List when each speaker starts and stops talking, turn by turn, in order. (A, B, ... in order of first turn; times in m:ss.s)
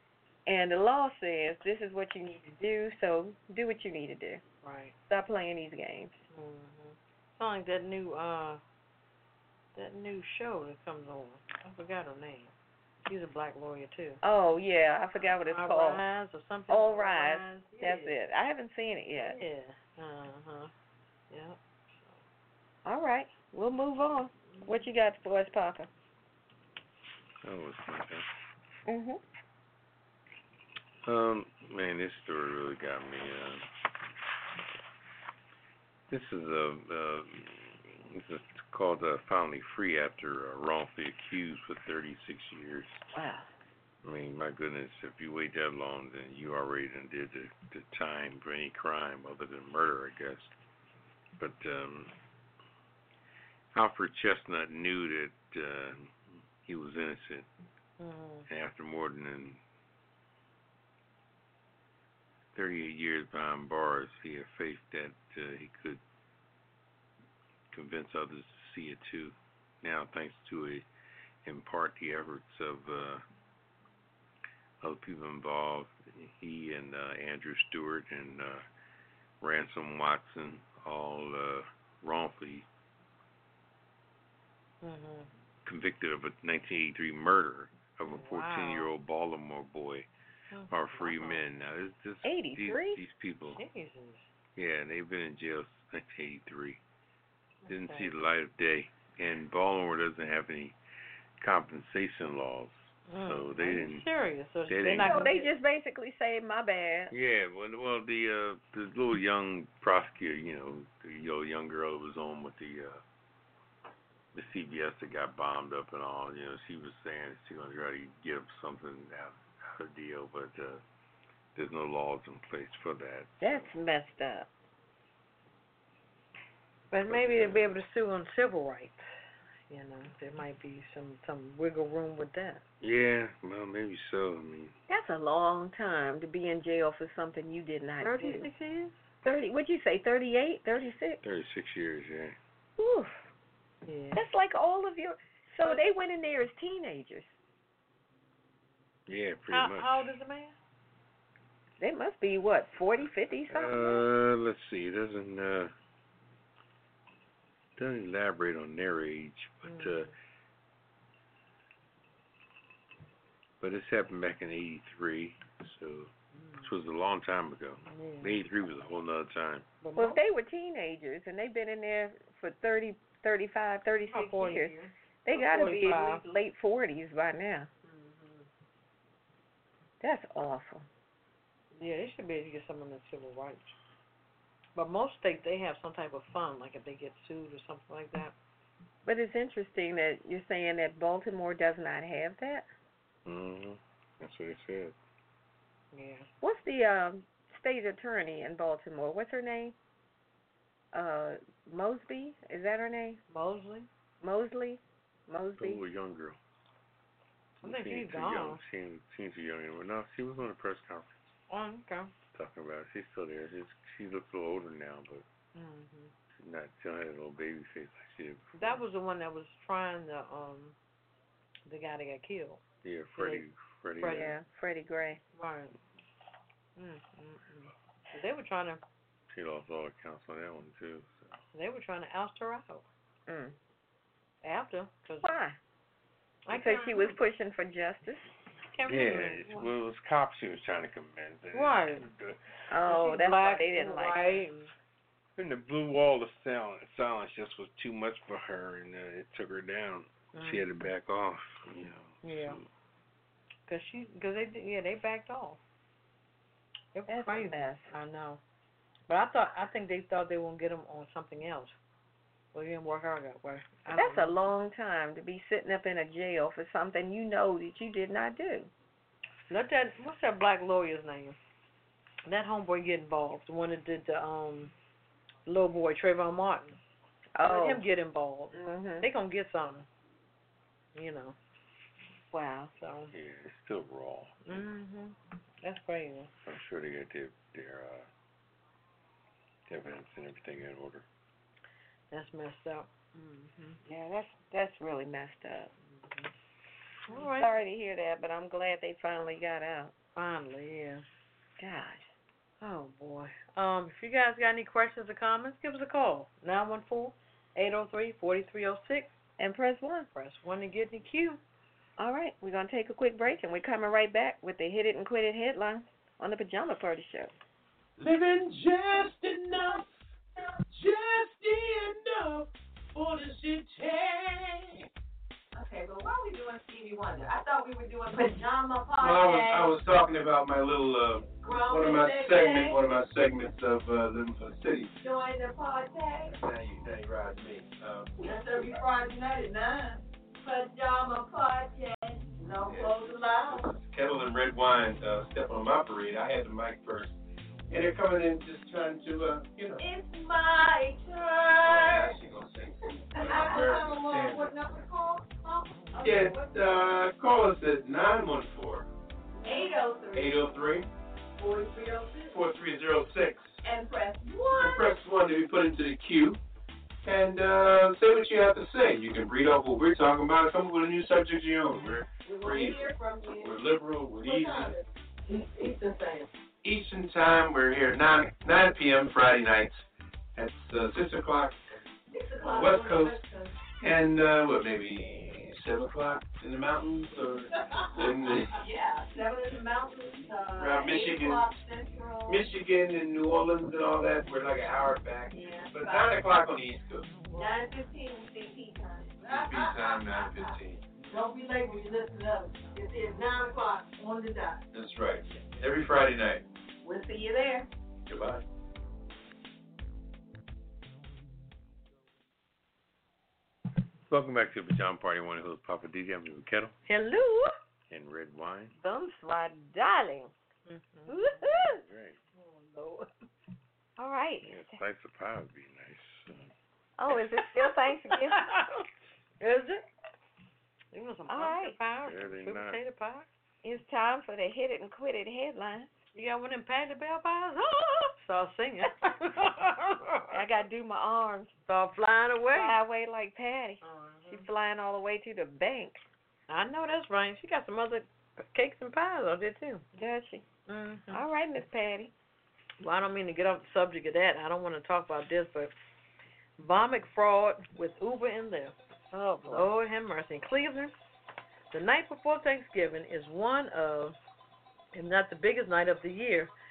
0:00.4-0:04.4 A
0:04.6-0:04.9 B
0:05.1-0:06.1 A
0:06.3-0:08.6 B
0:09.7-0:12.5 B
0:13.0-0:14.2 B
0:14.2-0:16.0 A
0:15.5-0:18.1 B
0:16.7-0:19.4 A
0:19.2-0:20.7 B
0:21.3-0:22.2 B
0:22.8-0:25.9 A
0:27.4-0:28.3 C
0:28.9-0:29.2 A
0:31.0-0:33.6 C
0:36.1-0:43.0 C
0:43.1-0:43.5 A
0:44.0-0:50.5 C
0:51.4-0:52.1 C
0:53.7-0:57.5 C
0:58.0-0:58.5 B
0:58.5-0:59.6 C
1:02.5-1:06.0 C
1:07.7-1:10.8 C
1:11.4-1:13.2 C
1:14.8-1:18.6 C
1:19.4-1:22.7 C
1:24.8-1:25.3 B
1:25.6-1:30.1 C
1:28.0-1:28.9 B
1:30.5-1:31.4 B
1:30.7-1:33.6 C
1:32.2-1:33.0 A
1:33.4-1:34.3 B
1:34.6-1:36.8 C
1:37.6-1:38.1 B
1:37.7-1:40.8 C
1:41.4-1:44.1 C
1:43.1-1:45.5 B
1:44.7-1:45.2 C
1:44.9-1:47.1 A
1:47.1-1:53.0 C
1:54.3-2:00.8 C
2:01.5-2:03.7 C
2:03.4-2:04.5 A
2:06.9-2:09.0 B
2:07.0-2:07.7 C
2:09.7-2:12.6 B
2:12.8-2:14.7 C
2:14.9-2:18.5 A
2:18.0-2:19.0 B
2:19.2-2:21.2 A
2:21.2-2:22.4 C
2:22.8-2:23.3 A
2:23.8-2:24.2 B
2:24.1-2:27.3 A
2:29.1-2:30.1 C
2:29.5-2:30.5 B
2:31.8-2:34.0 A
2:33.5-2:35.7 C
2:37.8-2:40.1 C
2:39.6-2:40.1 B
2:43.6-2:49.6 C
2:46.3-2:46.7 B
2:47.8-2:48.4 B
2:49.8-2:50.2 B
2:50.0-2:57.7 A
2:54.1-2:56.2 B
2:57.8-2:58.5 B
3:00.0-3:00.8 A
3:01.7-3:03.7 B
3:04.8-3:08.3 B
3:09.0-3:12.7 A
3:13.2-3:15.0 C
3:15.9-3:16.3 B
3:16.4-3:19.7 A
3:20.9-3:23.2 A
3:23.3-3:23.9 B
3:24.2-3:25.8 A
3:25.6-3:26.4 C
3:27.6-3:31.3 C
3:27.6-3:28.6 B
3:31.5-3:32.1 B
3:32.3-3:35.2 C
3:35.5-3:36.1 B
3:36.3-3:38.8 C
3:38.6-3:40.8 B
3:41.6-3:42.6 B
3:42.8-3:44.3 C
3:43.2-3:43.4 B
3:44.0-3:44.3 B
3:44.0-3:45.2 A
3:45.3-3:45.8 B
3:46.8-3:48.8 B
3:49.3-3:51.4 C
3:51.5-3:52.8 B
3:53.3-3:53.6 A
3:54.4-3:55.3 B
3:55.2-3:55.6 A
3:56.4-3:57.2 B
3:56.5-3:58.2 A
3:58.7-3:59.7 B
3:58.8-4:02.4 C
4:01.5-4:02.0 B
4:02.7-4:04.5 A
4:02.8-4:04.7 B
4:05.4-4:12.7 C
4:10.3-4:10.6 B
4:12.2-4:12.6 B
4:13.7-4:15.6 B
4:16.9-4:18.4 B
4:17.1-4:17.9 A
4:19.1-4:21.7 B
4:22.5-4:24.3 B
4:23.9-4:28.7 A
4:29.5-4:31.4 B
4:32.2-4:34.7 B
4:35.4-4:36.8 B
4:37.4-4:37.8 A
4:37.4-4:39.9 B
4:38.5-4:39.1 A
4:40.9-4:41.4 B
4:42.3-4:42.7 A
4:42.8-4:43.1 B
4:43.1-4:44.7 C
4:44.5-4:46.3 B
4:46.4-4:48.1 C
4:49.7-4:51.0 C
4:52.1-4:53.8 B
4:53.8-4:55.7 A
4:55.9-4:56.3 B
4:57.1-4:57.5 B
4:57.1-4:59.9 A
5:00.2-5:01.0 B
5:01.6-5:02.1 A
5:02.6-5:09.1 B
5:09.4-5:10.1 A
5:10.1-5:11.4 B
5:12.0-5:17.3 A
5:18.0-5:19.9 D
5:20.7-5:24.8 D
5:25.5-5:29.8 E
5:29.0-5:34.9 D
5:31.4-5:32.8 E
5:35.0-5:36.4 E
5:36.3-5:38.3 D
5:38.2-5:43.6 E
5:42.6-5:47.2 D
5:47.7-5:49.8 D
5:49.8-5:52.2 E
5:51.6-5:54.5 D
5:53.1-5:56.5 E
5:56.0-5:58.9 D
5:59.4-6:00.6 E
6:00.1-6:00.9 D
6:01.4-6:02.4 E
6:02.3-6:03.6 D
6:03.6-6:05.0 E
6:04.5-6:06.4 D
6:07.0-6:14.8 D
6:12.2-6:13.6 E
6:14.2-6:14.8 E
6:15.3-6:16.2 B
6:16.6-6:19.8 D
6:20.4-6:21.6 D
6:22.1-6:23.6 E
6:22.4-6:23.2 D
6:23.8-6:28.6 D
6:27.6-6:32.5 E
6:30.6-6:31.5 D
6:32.3-6:37.1 D
6:35.3-6:36.3 E
6:37.3-6:44.6 E
6:39.2-6:40.8 D
6:44.7-6:46.4 D
6:46.8-6:47.7 E
6:48.1-6:48.4 D
6:54.1-6:56.8 C
6:56.8-6:57.5 B
6:57.9-6:58.7 C
6:58.8-7:00.3 A
7:00.7-7:01.3 B
7:01.1-7:01.8 A
7:01.7-7:02.2 C
7:02.3-7:03.1 B
7:04.0-7:04.8 A
7:04.4-7:06.5 C
7:07.0-7:08.6 A
7:07.4-7:08.8 B
7:09.4-7:09.8 B
7:10.9-7:13.3 B
7:11.3-7:11.8 A
7:12.0-7:12.8 C
7:13.6-7:15.9 A
7:16.1-7:20.4 B
7:20.3-7:21.5 A
7:21.7-7:22.8 B
7:22.5-7:26.0 A
7:23.8-7:24.4 B
7:26.5-7:29.8 B
7:30.0-7:30.4 A
7:30.7-7:31.2 B
7:31.1-7:32.1 A
7:32.8-7:35.7 B
7:36.6-7:38.7 B
7:39.1-7:39.7 A
7:39.4-7:40.9 B
7:41.7-7:44.2 B
7:44.9-7:46.5 B